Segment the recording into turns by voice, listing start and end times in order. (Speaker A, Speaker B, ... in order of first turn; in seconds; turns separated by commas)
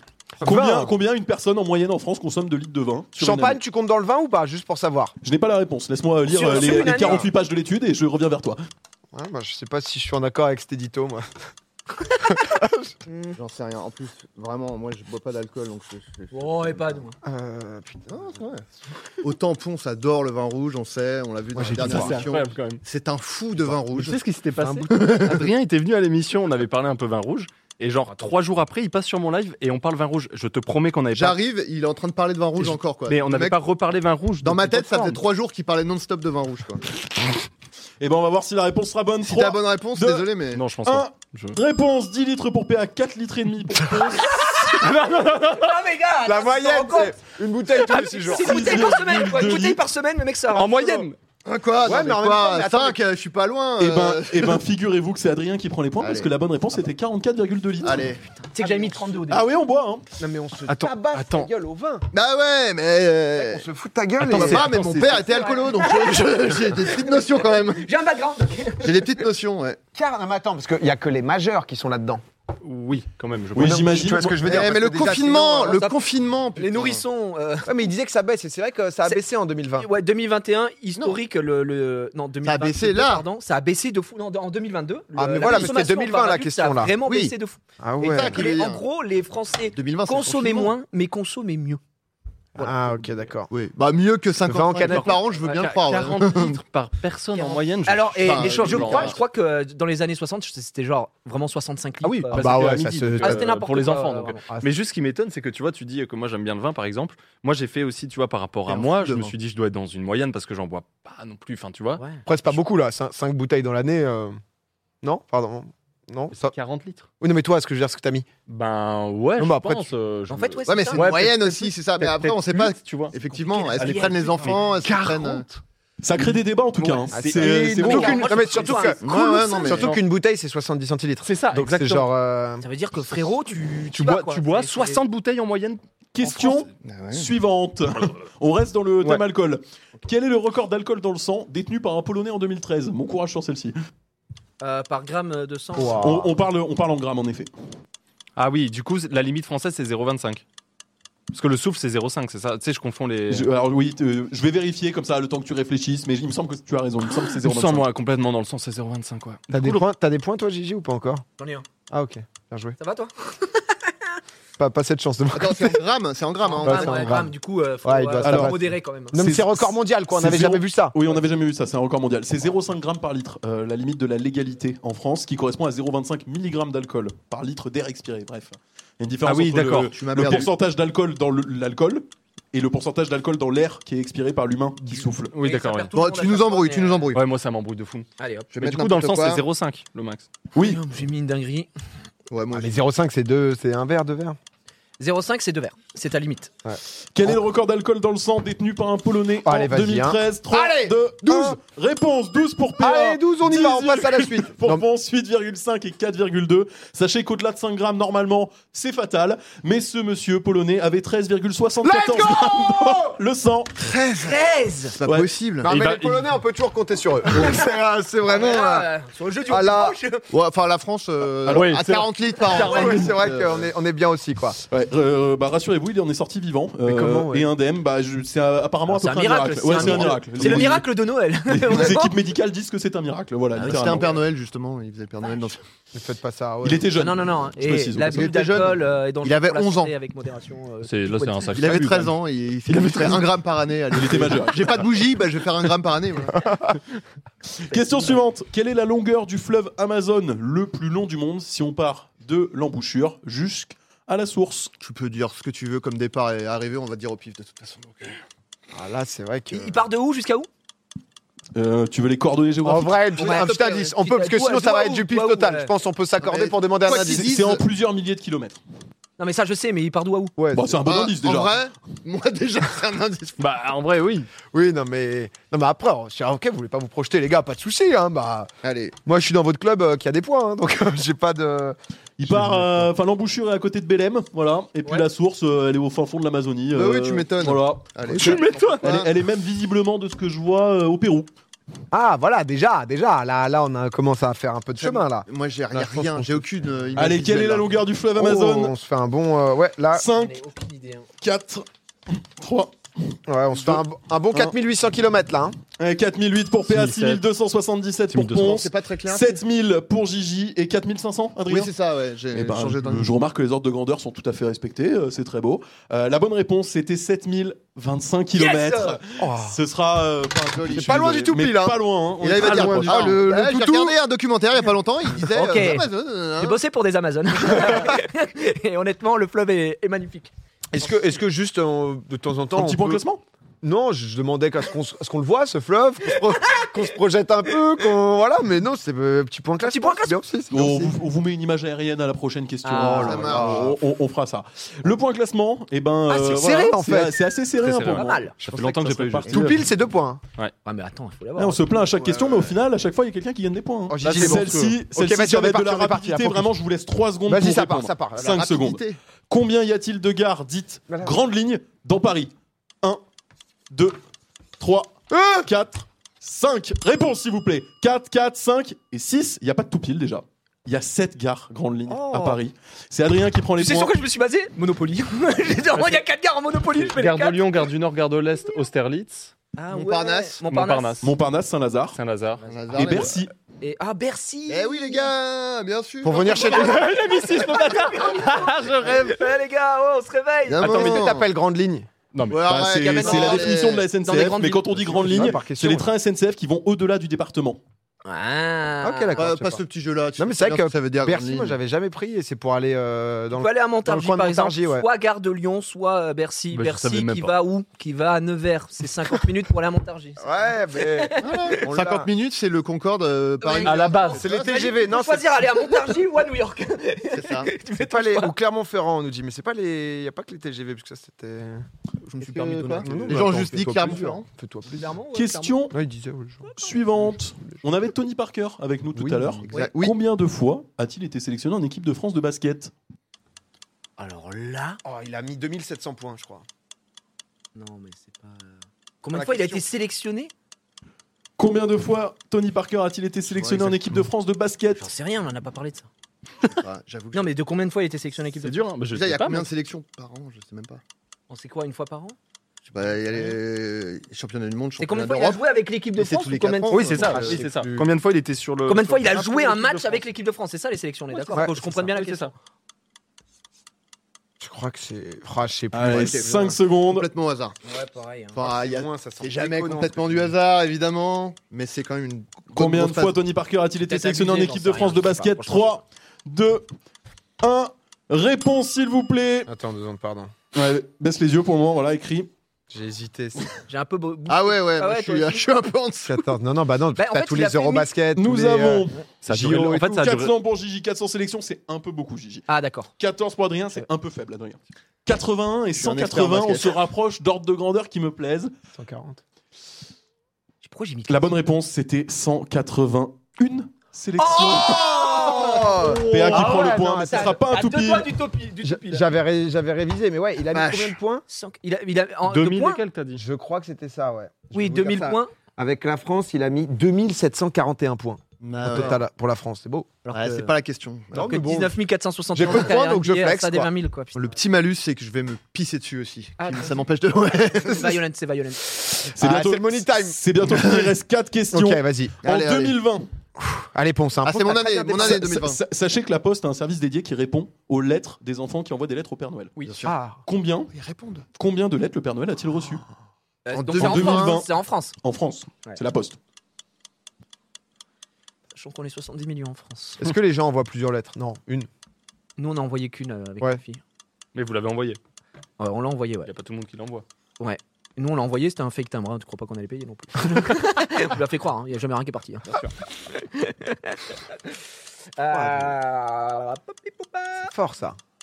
Speaker A: 0.4-0.9, Speaker B: 0.4-3.6, Speaker A: 3.2-5.1, Speaker B: 5.2-8.6, Speaker C: 6.3-7.3, Speaker A: 9.1-11.5, Speaker A: 12.1-12.9, Speaker C: 13.1-13.4, Speaker D: 13.4-17.0, Speaker C: 16.3-17.1, Speaker A: 17.2-18.1, Speaker D: 18.1-18.6, Speaker D: 19.2-24.2, Speaker A: 21.5-22.2, Speaker E: 21.7-22.8, Speaker E: 23.8-31.4, Speaker D: 24.9-25.5, Speaker D: 31.1-33.6, Speaker E: 32.6-35.2, Speaker D: 34.4-36.9, Speaker B: 38.0-40.3, Speaker D: 39.2-40.6, Speaker E: 40.5-41.6, Speaker B: 40.8-44.5, Speaker C: 44.3-44.9, Speaker E: 44.6-45.8, Speaker C: 45.5-47.2, Speaker A: 46.2-48.8, Speaker C: 47.8-51.1, Speaker B: 48.3-49.8, Speaker E: 50.5-51.2, Speaker D: 51.5-54.6, Speaker A: 51.8-53.0, Speaker B: 53.8-58.1, Speaker D: 56.0-56.3, Speaker D: 57.8-58.2, Speaker C: 58.5-59.5, Speaker A: 58.6-59.0, Speaker B: 59.3-60.0, Speaker A: 60.2-62.1, Speaker E: 60.7-61.5, Speaker D: 62.1-63.6, Speaker A: 63.4-64.9, Speaker E: 64.2-65.4, Speaker D: 64.2-67.9, Speaker C: 65.1-69.0, Speaker D: 68.8-69.8, Speaker A: 69.9-72.2, Speaker E: 72.6-73.8, Speaker B: 73.5-74.4, Speaker A: 73.5-75.9, Speaker D: 74.4-77.0, Speaker C: 75.7-76.0, Speaker C: 76.6-77.9, Speaker A: 77.7-79.9, Speaker C: 79.8-91.8, Speaker D: 82.4-83.3, Speaker A: 85.2-86.9, Speaker D: 87.0-87.3, Speaker A: 87.8-88.5, Speaker D: 88.0-88.8, Speaker D: 89.7-90.8, Speaker A: 92.6-93.5, Speaker C: 92.6-93.0, Speaker D: 93.5-96.6, Speaker A: 94.5-95.2, Speaker E: 94.8-99.2, Speaker C: 97.3-104.4, Speaker D: 98.2-99.2, Speaker A: 102.1-103.5, Speaker E: 102.3-112.0, Speaker D: 108.7-109.3, Speaker C: 112.0-112.2, Speaker A: 112.2-114.4, Speaker A: 115.0-116.5, Speaker E: 116.3-117.1, Speaker A: 117.2-118.3, Speaker E: 118.5-125.2, Speaker A: 119.4-119.9, Speaker C: 120.3-121.1, Speaker D: 120.7-125.5, Speaker C: 123.5-124.6, Speaker A: 124.8-125.4, Speaker B: 126.0-128.3, Speaker A: 127.1-132.7, Speaker C: 127.4-129.9, Speaker E: 128.5-128.7, Speaker D: 129.0-130.0, Speaker E: 129.7-130.0, Speaker E: 131.2-132.1, Speaker C: 132.6-135.0, Speaker E: 133.9-135.8, Speaker B: 136.1-143.8, Speaker D: 136.8-137.3, Speaker C: 144.6-146.2, Speaker A: 145.8-146.3, Speaker B: 145.8-147.5, Speaker E: 148.4-150.4, Speaker E: 151.3-153.5, Speaker B: 153.3-157.9, Speaker E: 157.3-159.8, Speaker A: 159.5-161.2, Speaker C: 161.4-161.7, Speaker A: 161.9-162.8, Speaker C: 162.8-163.8, Speaker A: 164.6-165.8, Speaker D: 165.3-167.2, Speaker C: 166.5-169.2, Speaker A: 166.5-171.0, Speaker B: 168.2-185.3, Speaker E: 179.2-179.9, Speaker D: 179.8-180.5, Speaker E: 185.3-185.9, Speaker C: 185.4-187.2, Speaker D: 185.9-187.2, Speaker E: 187.1-188.1, Speaker C: 188.2-188.5, Speaker D: 188.5-189.4, Speaker E: 188.6-190.3, Speaker B: 190.6-190.8, Speaker C: 190.6-191.7, Speaker D: 192.3-192.8, Speaker A: 192.5-194.4, Speaker C: 195.0-196.5, Speaker A: 196.7-197.4, Speaker B: 197.1-213.8, Speaker A: 199.4-201.6, Speaker A: 202.8-204.8, Speaker A: 211.9-212.9, Speaker A: 213.8-214.4, Speaker C: 214.2-215.0, Speaker D: 215.0-215.7, Speaker B: 215.0-215.3, Speaker A: 215.6-218.9, Speaker E: 215.7-216.3, Speaker C: 218.3-220.2, Speaker A: 219.5-220.0, Speaker D: 220.3-223.7, Speaker E: 221.5-223.0, Speaker A: 222.5-224.6, Speaker C: 222.5-223.0, Speaker B: 224.7-230.9, Speaker A: 226.8-227.5, Speaker C: 228.9-232.2, Speaker B: 231.5-234.2, Speaker D: 233.6-235.6, Speaker C: 233.6-233.9, Speaker A: 235.9-236.9, Speaker B: 236.6-238.7, Speaker C: 237.0-241.8, Speaker D: 238.1-239.9, Speaker E: 240.8-242.2, Speaker D: 241.6-246.6, Speaker B: 242.7-243.2, Speaker B: 243.9-244.8, Speaker B: 247.6-254.7, Speaker C: 247.7-248.0, Speaker D: 254.8-258.2, Speaker A: 258.7-259.8, Speaker C: 259.5-260.5, Speaker B: 261.6-263.0, Speaker A: 262.6-267.3, Speaker D: 263.2-263.7, Speaker C: 263.2-265.7, Speaker D: 266.2-267.6, Speaker B: 267.0-268.6, Speaker C: 269.2-270.3, Speaker A: 270.4-270.8, Speaker B: 270.5-271.6, Speaker D: 270.8-273.4, Speaker E: 273.4-274.3, Speaker A: 274.5-278.5, Speaker D: 278.6-279.0, Speaker A: 279.1-282.9, Speaker B: 282.2-291.3, Speaker D: 286.7-289.1, Speaker E: 288.2-289.0, Speaker A: 291.9-297.0, Speaker D: 294.8-297.8, Speaker B: 296.9-298.7, Speaker A: 298.2-300.1, Speaker B: 299.9-300.4, Speaker C: 300.1-301.1, Speaker B: 301.2-303.8, Speaker A: 303.3-305.6, Speaker B: 305.8-311.7, Speaker E: 306.7-307.2, Speaker E: 308.1-308.6, Speaker D: 308.4-309.4, Speaker D: 311.5-313.1, Speaker B: 312.3-323.3, Speaker C: 318.4-319.0, Speaker A: 319.2-319.6, Speaker D: 320.5-321.1, Speaker A: 320.7-321.8, Speaker D: 322.2-326.6, Speaker A: 322.4-324.0, Speaker C: 325.3-330.3, Speaker A: 330.7-333.0, Speaker B: 332.6-333.2, Speaker A: 333.6-340.9, Speaker C: 339.6-340.2, Speaker B: 340.5-349.6, Speaker C: 342.6-343.2, Speaker A: 342.8-343.8, Speaker D: 342.9-343.8, Speaker A: 346.1-347.2, Speaker E: 347.6-349.5, Speaker C: 347.9-348.3, Speaker A: 348.5-350.2, Speaker C: 350.6-351.6, Speaker B: 351.4-363.0, Speaker A: 352.0-352.5, Speaker A: 353.9-356.5, Speaker E: 354.0-354.8, Speaker A: 357.3-358.4, Speaker D: 358.2-359.0, Speaker A: 360.9-361.1, Speaker B: 363.7-364.0, Speaker B: 364.6-374.0, Speaker A: 365.1-365.5, Speaker C: 371.9-372.4, Speaker C: 373.6-377.6, Speaker E: 376.8-379.3, Speaker C: 379.6-381.1, Speaker D: 379.7-380.4, Speaker E: 380.4-381.1, Speaker B: 381.0-382.0, Speaker E: 381.9-382.4, Speaker C: 382.4-385.1, Speaker D: 382.4-383.2, Speaker B: 382.7-383.3, Speaker D: 384.5-387.0, Speaker A: 386.0-386.8, Speaker C: 386.3-391.1, Speaker E: 386.5-389.2, Speaker D: 388.8-389.1, Speaker D: 390.5-391.3, Speaker A: 390.6-391.9, Speaker E: 392.1-392.6, Speaker D: 392.3-393.9, Speaker B: 392.4-397.6, Speaker C: 392.9-395.3, Speaker A: 395.0-395.9, Speaker C: 398.1-399.3, Speaker A: 398.8-399.6, Speaker D: 399.2-401.6, Speaker A: 400.2-404.9, Speaker C: 403.4-411.6, Speaker E: 406.5-407.4, Speaker A: 410.2-412.1, Speaker D: 411.2-414.8, Speaker C: 413.4-418.4, Speaker E: 413.6-414.2, Speaker A: 414.1-415.7, Speaker D: 417.1-417.5, Speaker A: 417.8-421.7, Speaker C: 422.1-423.6, Speaker D: 422.2-424.3, Speaker A: 422.8-424.9, Speaker C: 424.7-425.6, Speaker B: 425.1-425.8, Speaker A: 425.7-426.5, Speaker C: 426.4-426.9, Speaker B: 426.5-432.7, Speaker A: 428.9-429.4, Speaker D: 429.5-429.9, Speaker C: 434.0-434.8, Speaker A: 434.8-436.5, Speaker C: 437.6-440.3, Speaker A: 439.1-439.6, Speaker B: 441.4-444.8, Speaker D: 443.3-443.8, Speaker C: 444.8-445.9, Speaker D: 446.5-447.4, Speaker C: 447.1-448.7, Speaker E: 448.4-449.5, Speaker D: 448.9-450.8, Speaker C: 451.3-452.2, Speaker D: 452.7-457.4, Speaker C: 454.8-457.3, Speaker E: 456.7-460.0, Speaker A: 457.1-457.9, Speaker C: 458.7-462.3, Speaker E: 461.2-462.3, Speaker A: 461.3-461.8, Speaker A: 464.4-466.6, Speaker B: 465.7-467.1, Speaker D: 465.9-467.6, Speaker C: 467.6-468.4, Speaker D: 468.3-473.2, Speaker A: 468.4-470.3, Speaker B: 472.5-476.7, Speaker C: 473.9-475.8, Speaker B: 477.4-479.5, Speaker A: 479.5-480.3, Speaker B: 480.5-482.3, Speaker A: 482.7-483.5, Speaker C: 483.7-485.4, Speaker D: 484.3-486.3, Speaker A: 486.1-490.0, Speaker C: 487.0-487.9, Speaker B: 488.1-492.5, Speaker E: 489.2-490.3, Speaker C: 492.5-492.9, Speaker B: 493.0-498.5, Speaker D: 495.8-496.8, Speaker A: 498.8-499.2, Speaker C: 500.6-501.4, Speaker B: 501.1-505.2, Speaker C: 504.2-509.2, Speaker D: 504.4-506.4, Speaker A: 505.0-507.4, Speaker B: 505.8-508.1, Speaker A: 508.6-511.2, Speaker D: 510.5-511.0, Speaker C: 511.3-512.8, Speaker E: 512.2-513.2, Speaker A: 513.1-520.0, Speaker C: 514.5-515.3, Speaker D: 518.4-519.0, Speaker C: 518.7-518.9, Speaker C: 520.0-520.5, Speaker D: 520.1-521.4, Speaker A: 521.1-521.8, Speaker C: 521.1-524.2, Speaker A: 522.3-523.7, Speaker D: 524.1-528.0, Speaker C: 526.4-526.8, Speaker C: 527.5-528.6, Speaker A: 528.7-530.2, Speaker B: 529.1-533.1, Speaker D: 530.5-530.9, Speaker A: 531.5-532.2, Speaker D: 532.2-532.8, Speaker A: 533.4-535.2, Speaker D: 534.2-535.6, Speaker B: 535.0-539.5, Speaker D: 539.7-540.0, Speaker A: 539.8-540.2, Speaker B: 540.2-540.7, Speaker D: 540.7-541.3, Speaker B: 541.4-542.8, Speaker C: 543.5-544.9, Speaker D: 543.5-544.4, Speaker B: 543.8-544.5, Speaker B: 545.0-546.2, Speaker C: 548.5-550.0, Speaker A: 550.0-551.7, Speaker C: 552.4-553.8, Speaker E: 554.4-555.0, Speaker C: 555.6-556.3, Speaker E: 556.2-557.0, Speaker C: 557.4-564.1, Speaker C: 565.2-567.5, Speaker A: 565.3-565.8, Speaker A: 567.5-568.0